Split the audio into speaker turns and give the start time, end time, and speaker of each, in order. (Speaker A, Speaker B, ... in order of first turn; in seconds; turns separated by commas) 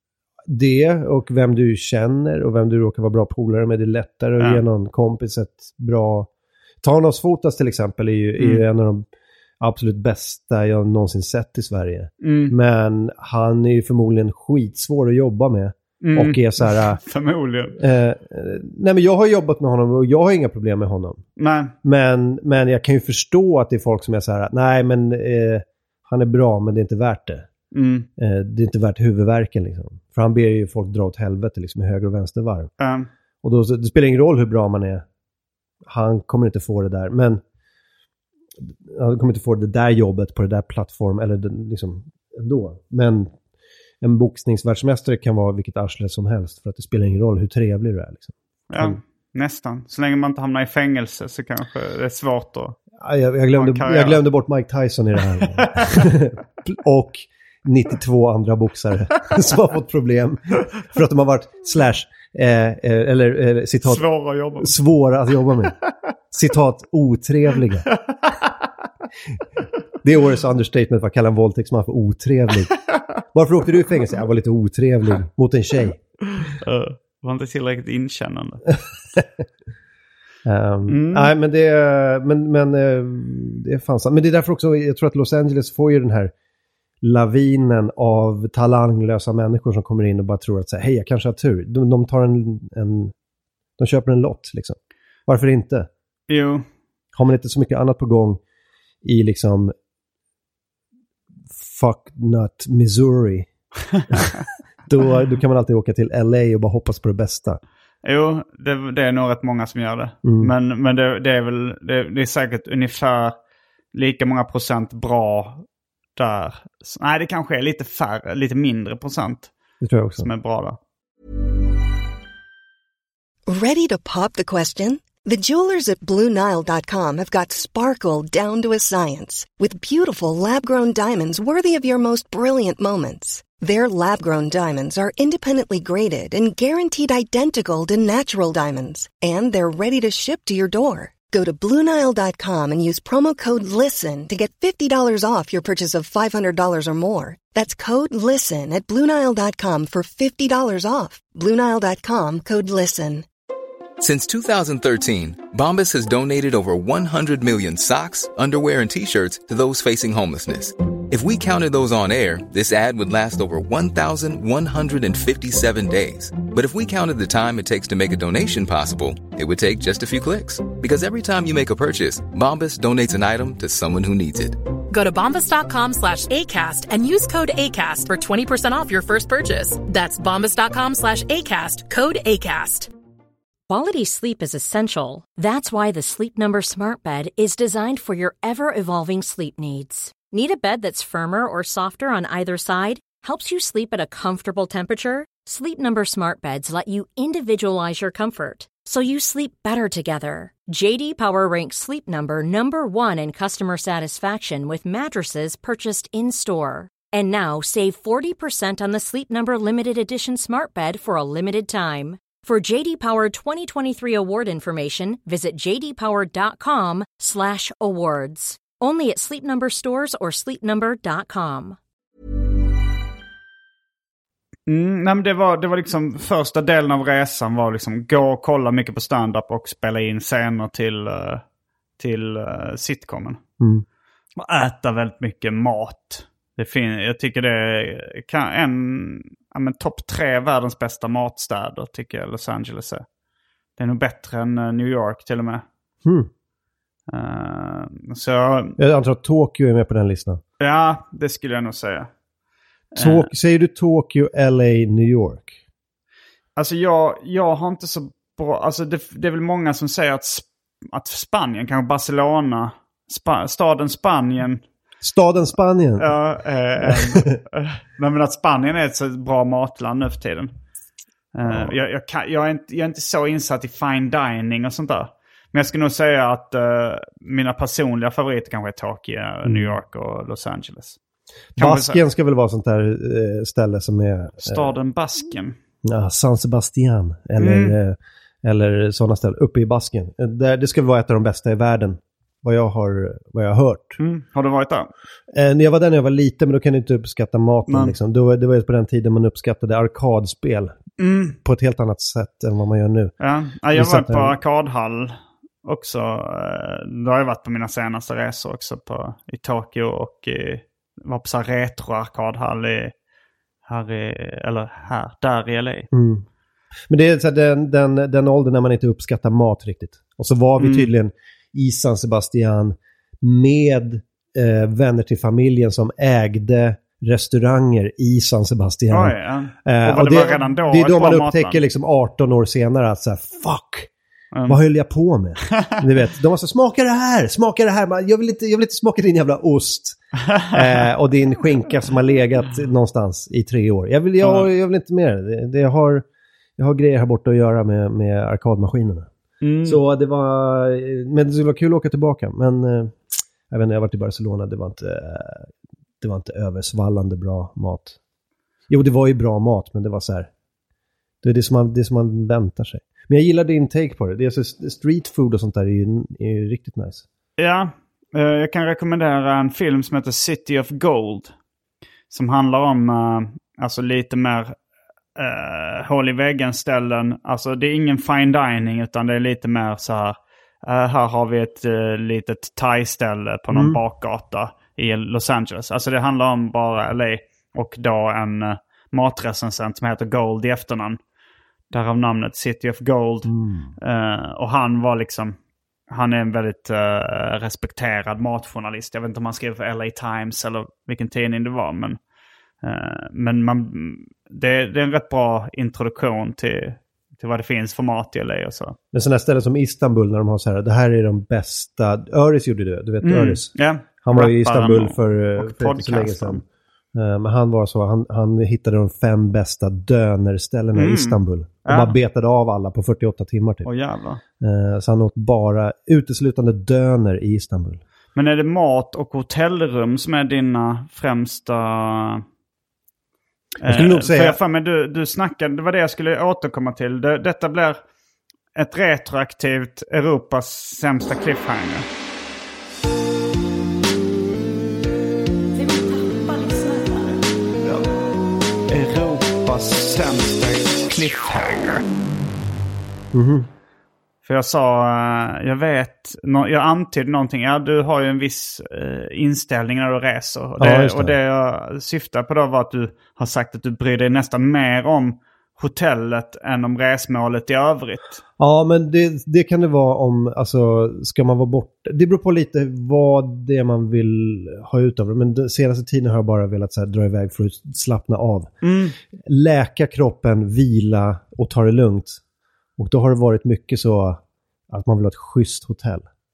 Speaker A: 0.5-6.3, Speaker A: 6.8-9.1, Speaker B: 8.4-8.7, Speaker A: 9.6-17.0, Speaker B: 12.2-12.5, Speaker B: 16.0-17.8, Speaker A: 17.8-21.2, Speaker B: 21.4-21.7, Speaker A: 21.8-27.5, Speaker B: 27.7-28.1, Speaker A: 28.2-32.7, Speaker B: 32.8-33.1, Speaker A: 33.4-35.0, Speaker A: 35.8-37.4, Speaker A: 38.6-43.3, Speaker A: 44.0-49.0, Speaker B: 48.7-52.8, Speaker A: 53.0-64.0, Speaker B: 53.6-54.2, Speaker B: 55.6-56.1, Speaker B: 63.9-64.8, Speaker A: 64.6-65.8, Speaker A: 66.3-67.9, Speaker B: 68.1-68.5, Speaker A: 70.0-72.7, Speaker A: 73.3-76.0, Speaker B: 76.3-78.7, Speaker A: 80.5-86.3, Speaker B: 80.9-81.3, Speaker A: 87.0-93.1, Speaker A: 93.8-95.9, Speaker B: 96.3-96.7, Speaker A: 97.1-98.4, Speaker A: 99.0-99.7, Speaker A: 101.6-103.5, Speaker A: 104.9-107.6, Speaker B: 108.0-113.3, Speaker A: 110.2-110.5, Speaker B: 113.9-115.7, Speaker B: 116.2-119.5, Speaker A: 119.8-120.3, Speaker B: 120.2-120.8, Speaker C: 123.5-153.3, Speaker D: 154.0-174.6, Speaker E: 174.9-182.9, Speaker F: 183.7-221.8, Speaker B: 224.7-231.4, Speaker B: 232.0-233.4, Speaker A: 233.6-233.8, Speaker B: 234.4-243.1, Speaker B: 243.8-245.6, Speaker A: 246.0-246.3, Speaker B: 247.1-248.8, Speaker A: 248.8-250.4, Speaker B: 250.6-252.1, Speaker A: 253.0-255.6, Speaker B: 253.0-253.3, Speaker B: 256.6-264.6, Speaker A: 265.0-266.1, Speaker B: 266.0-270.5, Speaker A: 266.8-267.4, Speaker B: 271.3-281.0, Speaker A: 271.4-271.8, Speaker A: 279.4-279.8, Speaker A: 281.6-284.7, Speaker B: 281.6-282.0, Speaker B: 284.4-285.6, Speaker A: 285.8-294.0, Speaker B: 287.4-287.8, Speaker B: 294.0-294.9, Speaker A: 295.3-300.8, Speaker B: 297.7-297.9, Speaker B: 301.0-301.4, Speaker A: 301.4-303.1, Speaker B: 303.2-312.9, Speaker A: 303.7-304.3, Speaker B: 313.7-315.9, Speaker A: 315.9-316.2, Speaker A: 316.9-333.9, Speaker B: 320.6-320.9, Speaker B: 328.9-331.6, Speaker B: 334.3-334.6, Speaker A: 334.5-340.0, Speaker B: 340.3-340.6, Speaker A: 340.5-346.1, Speaker B: 344.2-344.5, Speaker A: 346.6-349.1, Speaker B: 349.4-349.8, Speaker A: 349.6-355.5, Speaker A: 356.0-358.0, Speaker A: 358.7-360.3, Speaker A: 361.2-367.1, Speaker B: 367.4-371.3, Speaker B: 372.1-374.6, Speaker B: 375.2-391.0, Speaker A: 383.5-383.8, Speaker B: 391.7-395.4, Speaker A: 393.3-393.7, Speaker B: 395.9-402.0, Speaker B: 402.6-408.8, Speaker A: 408.9-423.7, Speaker B: 413.0-416.4, Speaker B: 420.8-422.0, Speaker B: 423.6-424.2, Speaker A: 424.4-427.8, Speaker B: 428.1-432.2, Speaker B: 433.6-437.8, Speaker A: 433.6-434.4, Speaker B: 438.6-441.9, Speaker F: 445.6-447.2, Speaker B: 448.7-451.8, Speaker A: 453.1-453.5, Speaker B: 454.2-468.2, Speaker A: 460.6-461.1, Speaker A: 468.4-478.5, Speaker B: 478.6-478.9, Speaker A: 479.2-482.2, Speaker A: 482.8-486.1